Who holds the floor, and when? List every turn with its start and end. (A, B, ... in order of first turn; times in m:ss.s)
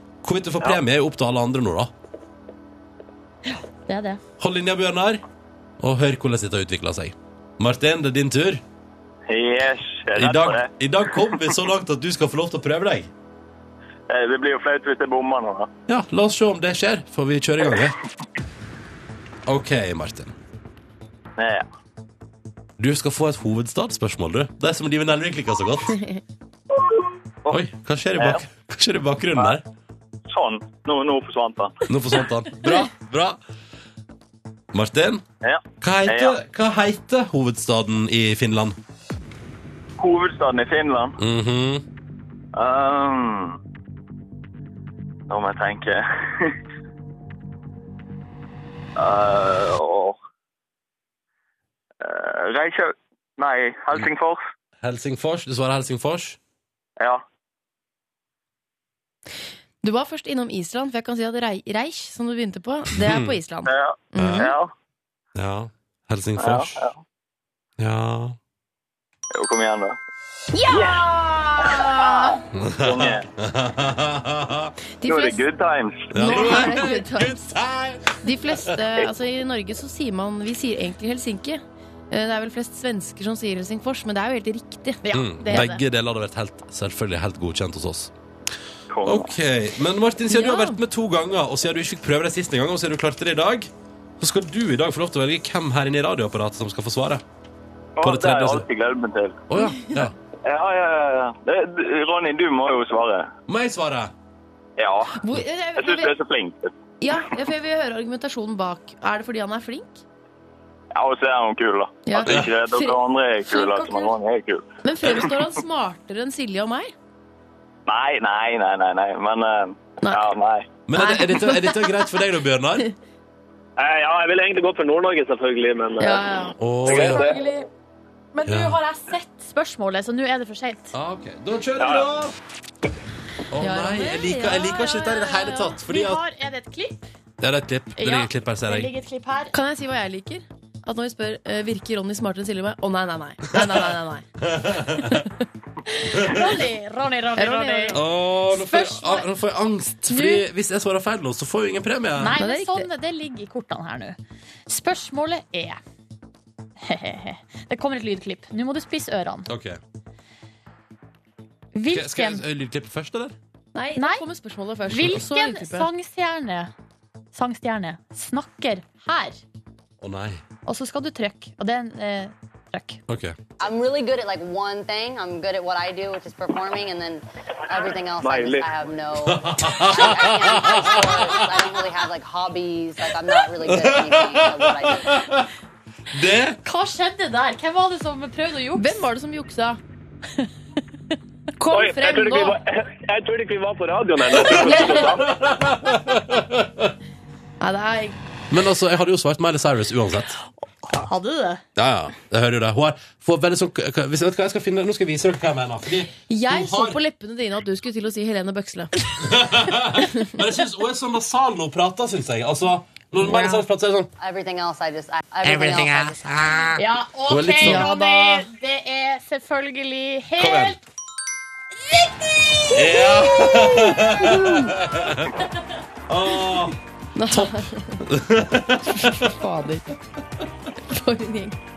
0:00.2-0:01.9 A
0:03.5-0:04.2 B
0:04.4-0:05.2 A
0:05.8-0:08.6 A
0:09.3-0:10.7 C
0:10.2-0:13.1 A
0:14.1-0:15.7 C
0:15.9-0:18.0 A
0:19.5-0:20.3 A
0:21.4-0:21.6 C
0:22.8-0:26.0 A
0:26.7-0:27.6 C
0:27.5-0:29.6 A
0:30.3-0:31.8 C
0:31.9-0:33.4 A
0:34.7-0:35.2 A
0:35.4-0:36.4 C
0:35.8-0:38.8 A
0:40.0-0:41.2 C
0:41.2-0:41.8 A
0:42.6-0:43.6 C
0:45.3-0:46.5 C
0:49.0-0:50.2 C
0:52.0-0:54.4 C
0:54.8-0:56.4 A
0:59.8-1:04.5 D
1:03.0-1:03.4 A
1:03.7-1:04.7 C
1:04.2-1:04.5 A
1:05.4-1:06.8 A
1:06.4-1:07.0 C
1:07.8-1:08.4 A
1:09.3-1:10.0 C
1:10.5-1:12.4 D
1:10.7-1:11.1 C
1:11.6-1:13.3 C
1:12.6-1:14.7 A
1:15.0-1:15.4 D
1:15.0-1:16.7 C
1:16.1-1:17.6 D
1:16.1-1:18.8 A
1:18.2-1:25.7 D
1:25.0-1:25.8 B
1:25.1-1:28.1 A
1:28.9-1:29.3 C
1:29.0-1:33.7 A
1:30.3-1:30.8 D
1:34.2-1:37.2 A
1:38.0-1:39.4 C
1:38.0-1:38.6 A
1:39.5-1:40.2 A
1:39.6-1:40.1 D
1:40.4-1:43.3 C
1:43.5-1:44.1 A
1:44.8-1:45.2 C
1:45.1-1:46.2 D
1:45.8-1:46.7 C
1:47.0-1:50.0 D
1:50.9-1:55.3 C
1:52.1-1:53.0 D
1:53.5-1:54.1 B
1:54.8-1:56.9 D
1:57.9-2:00.7 C
2:00.0-2:00.3 D
2:00.9-2:02.9 A
2:01.0-2:02.2 D
2:03.8-2:06.2 E
2:06.0-2:06.6 D
2:06.6-2:07.3 A
2:06.8-2:07.4 E
2:06.9-2:07.7 B
2:08.3-2:10.9 B
2:08.5-2:08.8 A
2:10.9-2:12.3 A
2:11.8-2:12.1 E
2:13.5-2:16.2 A
2:13.6-2:14.2 D
2:14.0-2:17.0 B
2:17.4-2:18.9 A
2:18.0-2:19.6 B
2:19.5-2:25.5 D
2:24.4-2:25.2 A
2:25.9-2:28.0 B
2:26.2-2:26.4 A
2:27.4-2:28.0 D
2:27.9-2:32.4 A
2:28.5-2:29.3 B
2:30.1-2:30.4 B
2:32.2-2:34.2 B
2:32.4-2:32.9 D
2:34.7-2:35.8 B
2:36.8-2:39.5 B
2:39.5-2:39.8 A
2:41.7-2:42.4 B
2:41.9-2:43.4 A
2:43.7-2:45.9 D
2:44.0-2:44.2 B
2:44.9-2:46.7 B
2:47.3-2:49.4 B
2:50.0-2:50.4 A
2:50.7-2:53.0 B
2:53.1-2:53.4 A
2:53.6-3:05.2 F
2:58.2-2:58.7 E
2:59.2-3:01.7 A
3:03.6-3:05.5 A
3:06.1-3:06.6 A
3:06.6-3:09.0 B
3:08.8-3:09.8 D
3:11.6-3:12.6 D
3:11.7-3:15.4 E
3:14.5-3:15.1 D
3:15.3-3:16.9 A
3:17.6-3:18.2 D
3:18.5-3:20.4 A
3:20.8-3:21.6 B
3:21.8-3:27.0 A
3:26.3-3:28.9 D
3:29.2-3:34.1 A
3:33.2-3:33.6 D
3:34.2-3:36.7 F
3:35.4-3:37.9 A
3:36.8-3:40.8 B
3:37.6-3:38.5 D
3:40.4-3:40.8 A
3:42.7-3:45.3 A
3:43.0-3:43.6 D
3:44.2-3:44.8 D
3:46.1-3:46.8 A
3:47.2-3:48.0 D
3:48.0-3:49.3 A
3:48.9-3:49.9 D
3:50.9-3:51.6 D